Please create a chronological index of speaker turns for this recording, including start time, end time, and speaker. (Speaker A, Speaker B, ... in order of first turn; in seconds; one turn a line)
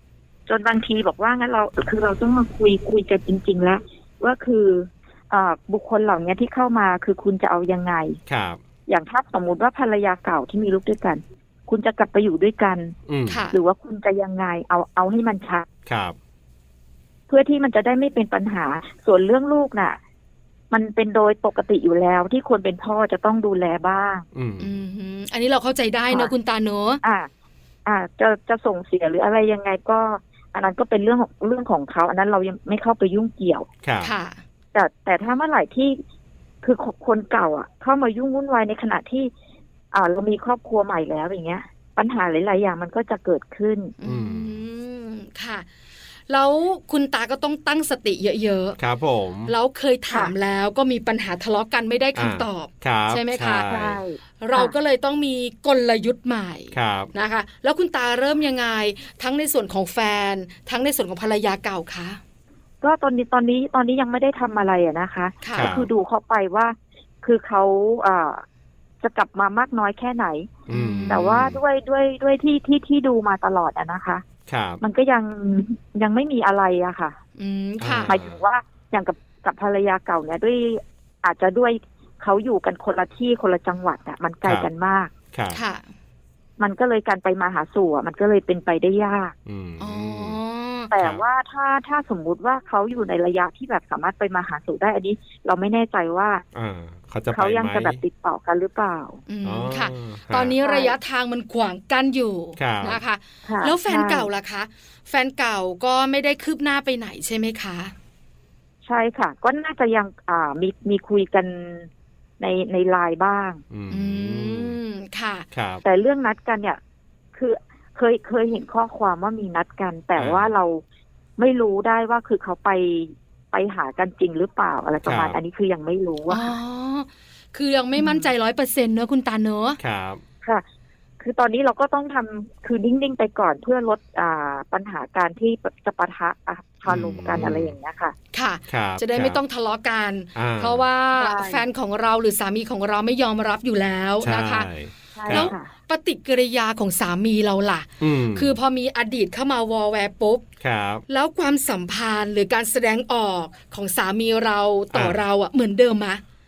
Speaker A: 0.5-8.2
Speaker B: 8.3-8.6
Speaker A: 8.9-12.9
Speaker B: 13.1-13.4
Speaker C: 13.3-13.6
Speaker A: 13.5-15.7
Speaker B: 15.8-16.1
Speaker A: 17.3-20.0
Speaker A: 20.7-24.2
Speaker B: 24.3-24.7
Speaker C: 24.6-27.0
Speaker A: 27.0-27.3
Speaker A: 27.9-33.7
Speaker B: 33.8-34.1
Speaker C: 34.0-34.4
Speaker A: 34.7-36.0
Speaker A: 36.6-39.3
Speaker A: 39.9-44.0
Speaker C: 44.0-45.7
Speaker B: 44.0-44.5
Speaker C: 46.3-48.8
Speaker B: 48.8-49.5
Speaker C: 49.5-53.7
Speaker B: 52.1-54.0
Speaker A: 53.7-54.7
Speaker C: 54.4-62.2
Speaker B: 56.7-57.1
Speaker A: 62.8-68.4
Speaker C: 65.4-65.7
Speaker B: 65.5-65.9
Speaker A: 69.0-70.5
Speaker C: 70.7-71.3
Speaker B: 70.7-71.6
Speaker A: 71.1-74.2
Speaker B: 74.5-74.8
Speaker A: 74.8-77.2
Speaker C: 77.4-78.1
Speaker B: 77.8-78.4
Speaker A: 78.1-85.1
Speaker B: 85.3-85.6
Speaker C: 85.5-85.8
Speaker A: 86.6-89.3
Speaker B: 89.5-90.4
Speaker C: 89.8-90.9
Speaker A: 90.9-96.4
Speaker B: 91.0-91.2
Speaker B: 96.5-98.0
Speaker A: 97.3-99.2
Speaker C: 99.3-107.9
Speaker B: 99.4-100.5
Speaker A: 100.6-100.9
Speaker B: 102.6-103.0
Speaker A: 103.5-104.3
Speaker A: 108.8-111.9
Speaker A: 112.4-113.6
Speaker B: 113.7-114.8
Speaker C: 113.9-115.5
Speaker B: 115.5-115.8
Speaker A: 115.8-116.8
Speaker A: 117.3-120.8
Speaker B: 120.2-120.5
Speaker A: 121.4-126.5
Speaker B: 125.0-125.4
Speaker C: 126.3-129.8
Speaker A: 128.0-128.3
Speaker B: 129.8-130.2
Speaker A: 131.2-138.1
Speaker B: 136.8-137.8
Speaker C: 138.3-144.7
Speaker B: 138.7-139.4
Speaker B: 140.3-140.8
Speaker A: 141.2-141.6
Speaker B: 144.2-145.5
Speaker A: 145.2-145.7
Speaker C: 145.3-150.4
Speaker B: 148.0-148.6
Speaker B: 150.6-151.0
Speaker C: 151.1-156.2
Speaker B: 154.9-155.2